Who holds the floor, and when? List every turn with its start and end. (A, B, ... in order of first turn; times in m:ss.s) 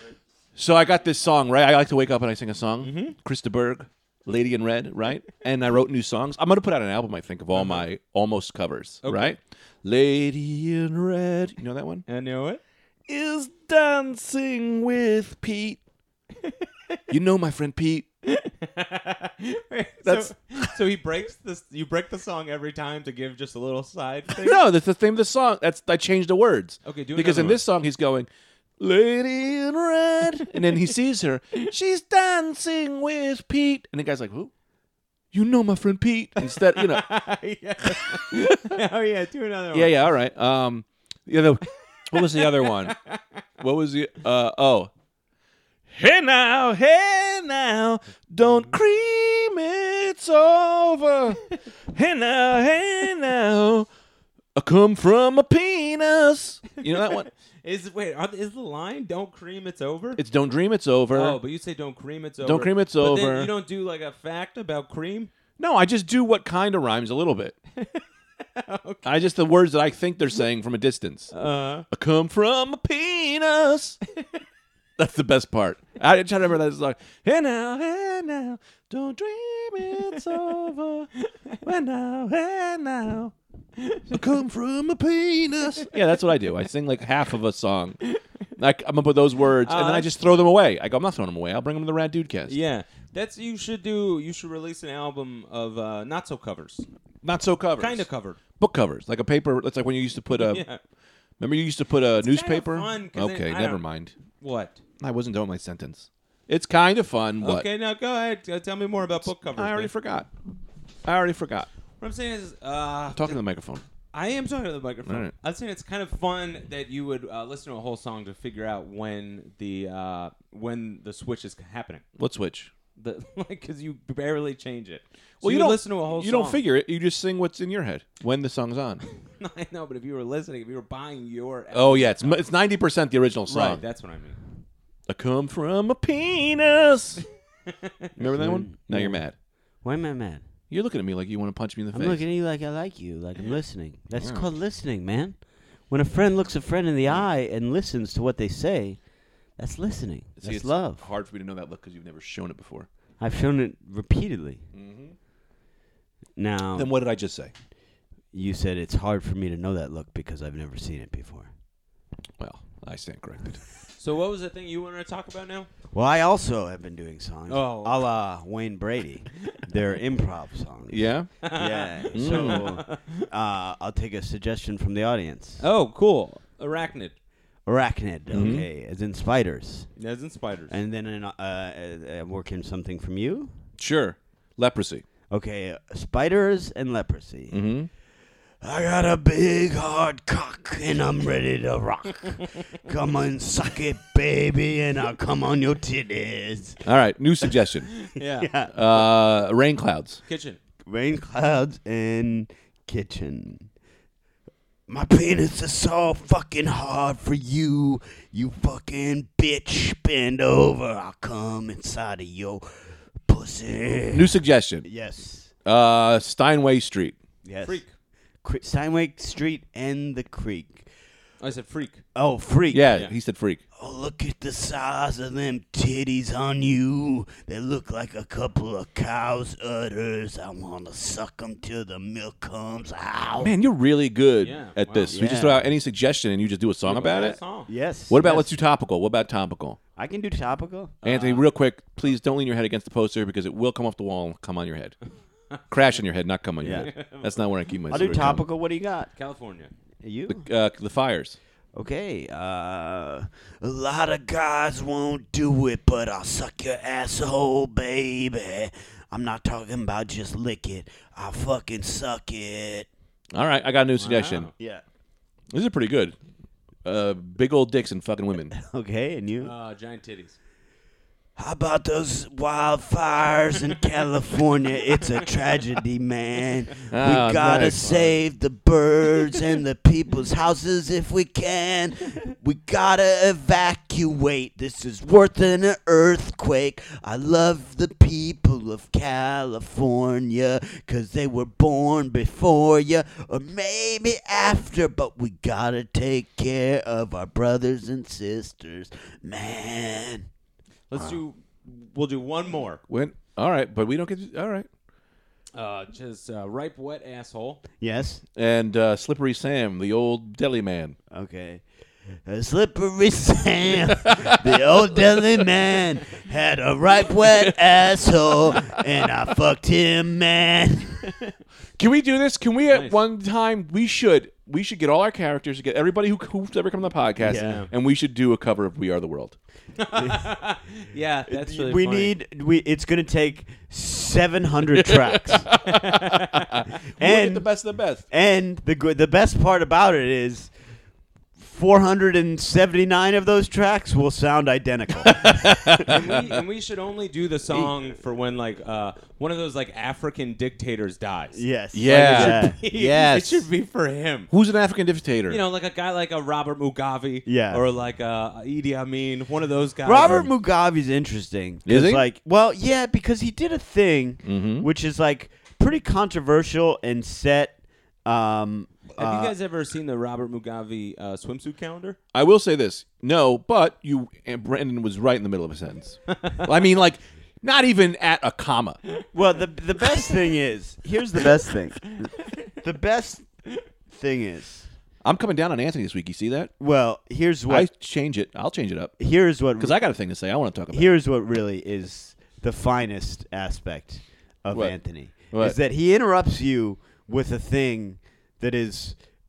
0:00.6-0:12.0 A
0:02.8-0:03.2 B
0:07.6-0:07.8 B
0:09.0-0:09.4 B
0:12.1-0:12.6 B
0:13.1-0:15.8 A
0:16.4-0:17.0 B
0:17.1-0:18.1 A
0:18.2-0:24.6 B
0:20.0-0:20.8 A
0:24.4-0:28.3 A
0:26.8-0:27.6 B
0:28.8-0:34.5 A
0:35.3-0:37.1 A
0:36.4-0:40.0 B
0:39.7-0:43.0 A
0:42.1-0:43.2 B
0:43.6-0:44.9 A
0:45.9-0:53.9 A
0:54.6-0:57.3 A
0:56.9-1:00.2 B
1:00.2-1:01.4 A
1:01.1-1:05.3 B
1:02.4-1:03.5 A
1:05.6-1:07.6 A
1:07.8-1:09.1 B
1:09.0-1:11.3 A
1:11.3-1:11.9 B
1:11.9-1:14.0 A
1:15.0-1:21.1 A
1:21.6-1:23.3 A
1:23.8-1:24.2 B
1:24.1-1:28.0 A
1:28.6-1:32.6 A
1:29.6-1:30.1 B
1:32.5-1:36.9 B
1:37.2-1:38.0 A
1:37.8-1:38.4 B
1:38.6-1:40.6 A
1:40.3-1:40.8 B
1:41.4-1:44.1 A
1:42.2-1:43.8 B
1:44.4-1:44.8 B
1:45.0-1:47.7 A
1:47.4-1:49.9 B
1:49.6-1:50.3 A
1:51.0-1:51.7 A
1:52.0-1:53.4 B
1:53.2-1:53.8 A
1:54.1-2:02.0 B
1:55.1-1:55.3 A
2:02.2-2:02.7 A
2:03.0-2:06.6 B
2:05.4-2:09.0 A
2:09.2-2:12.4 B
2:11.7-2:13.8 A
2:13.5-2:14.4 B
2:15.1-2:17.2 A
2:17.7-2:18.1 B
2:18.2-2:19.3 A
2:18.3-2:19.2 C
2:19.8-2:20.4 C
2:20.7-2:22.2 A
2:21.9-2:25.4 C
2:24.2-2:24.5 A
2:25.9-2:29.0 C
2:29.6-2:31.0 C
2:30.4-2:32.9 A
2:33.2-2:34.6 C
2:34.7-2:35.2 A
2:36.4-2:36.9 C
2:36.8-2:37.5 A
2:38.3-2:41.5 C
2:42.4-2:43.6 A
2:44.0-2:45.7 B
2:45.9-2:55.6 C
2:47.5-2:48.0 B
2:50.9-2:51.3 A
2:51.4-2:53.3 B
2:52.1-2:52.7 A
2:55.6-2:57.2 B
2:57.7-2:59.9 C
2:58.3-2:58.7 A
3:00.0-3:00.8 B
3:00.7-3:03.5 C
3:03.8-3:05.0 A
3:05.3-3:07.6 C
3:07.5-3:07.9 A
3:08.6-3:16.8 C
3:16.8-3:17.9 A
3:17.9-3:18.5 B
3:18.4-3:18.7 C
3:18.7-3:20.2 A
3:20.3-3:20.6 B
3:20.9-3:23.7 C
3:24.9-3:32.6 C
3:33.3-3:35.5 C
3:34.1-3:34.9 A
3:35.6-3:37.2 A
3:37.4-3:37.8 C
3:37.6-3:37.9 B
3:38.4-3:40.9 C
3:41.4-3:42.0 B
3:42.2-3:43.0 C
3:42.7-3:43.6 A
3:43.8-3:53.5 C
3:53.4-3:57.4 A
3:54.4-3:55.1 B
3:55.1-3:55.7 C
3:56.9-3:57.7 B
3:57.7-3:58.5 C
3:58.1-3:59.8 A
4:00.0-4:01.0 C
4:01.0-4:01.4 B
4:01.0-4:05.0 A
4:05.7-4:08.4 A
4:06.6-4:06.9 C
4:06.7-4:07.4 B
4:07.9-4:09.1 C
4:09.2-4:09.7 B
4:10.0-4:10.4 C
4:10.3-4:11.4 A
4:11.8-4:22.9 C
4:23.3-4:24.5 A
4:24.0-4:24.5 B
4:25.5-4:26.2 A
4:26.8-4:28.5 A
4:28.5-4:29.5 C
4:29.4-4:30.4 B
4:31.4-5:00.3 C
4:36.9-4:38.1 A
5:00.9-5:02.8 B
5:02.9-5:04.7 A
5:05.6-5:07.6 B
5:07.8-5:08.2 C
5:08.4-5:11.0 A
5:11.1-5:11.6 C
5:12.3-5:21.3 C
5:14.0-5:14.4 A
5:21.8-5:29.4 A
5:22.7-5:23.0 B
5:27.2-5:27.6 C
5:27.3-5:27.7 B
5:29.8-5:32.1 B
5:31.3-5:35.5 C
5:34.8-5:38.0 A
5:35.6-5:36.5 B
5:37.0-5:37.5 C
5:38.1-5:40.5 C
5:41.4-5:45.9 C
5:45.0-5:46.2 A
5:45.8-5:54.3 B
5:51.3-5:53.5 C
5:51.7-5:52.6 A
5:54.3-5:55.4 A
5:55.3-6:00.3 B
5:57.3-5:57.6 C
5:59.8-6:09.3 C
6:00.0-6:00.3 A
6:01.7-6:02.0 A
6:04.2-6:04.7 A
6:08.9-6:12.0 B
6:12.1-6:18.8 A
6:16.1-6:16.5 B
6:19.1-6:23.3 C
6:22.2-6:22.5 B
6:23.9-6:24.7 C
6:25.0-6:26.5 A
6:26.6-6:27.7 C
6:27.5-6:29.0 A
6:29.0-6:29.8 C
6:29.6-6:30.9 A
6:30.7-6:39.0 C
6:35.3-6:35.6 A